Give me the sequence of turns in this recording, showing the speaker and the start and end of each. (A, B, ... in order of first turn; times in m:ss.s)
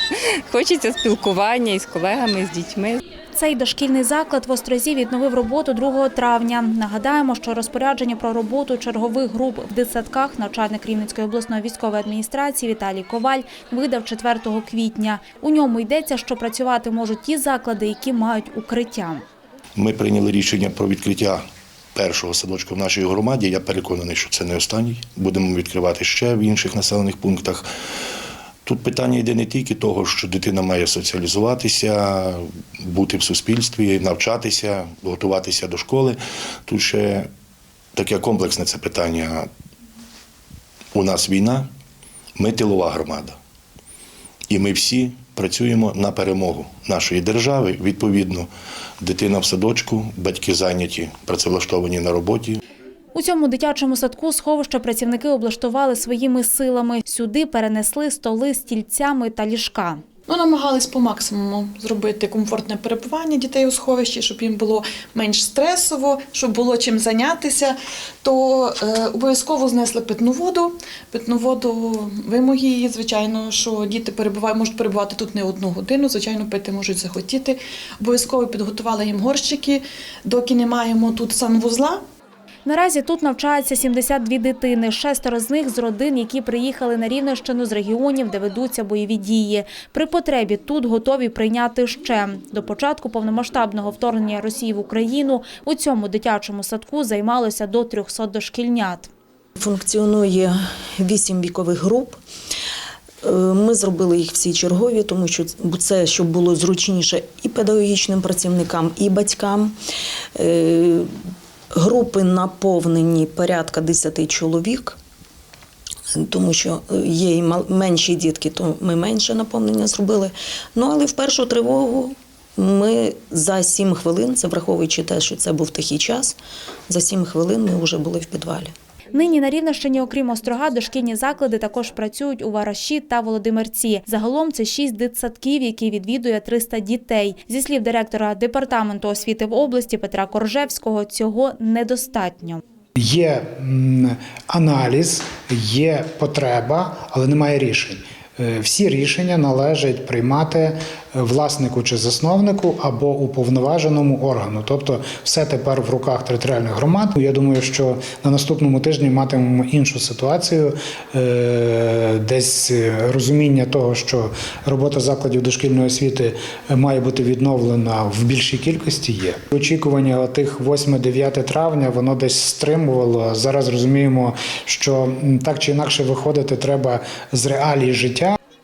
0:00.5-0:03.0 A
0:03.3-0:19.2 B
0:19.8-0:21.4 C
0:22.0-0:27.7 C
0:28.6-0:37.3 C
0:38.0-0:39.5 C
0:40.9-0:41.7 C
0:42.4-0:43.4 C
0:44.5-0:48.5 C
0:49.0-0:52.6 C
0:53.1-1:00.0 B
1:00.3-1:22.0 D
1:22.6-1:39.1 B
1:39.6-1:42.2 E
1:43.2-1:49.8 E
1:50.4-1:51.1 E
1:51.7-1:55.0 E
1:56.1-2:06.4 E
2:06.9-2:08.7 E
2:09.1-2:22.6 B
2:23.0-2:58.4 F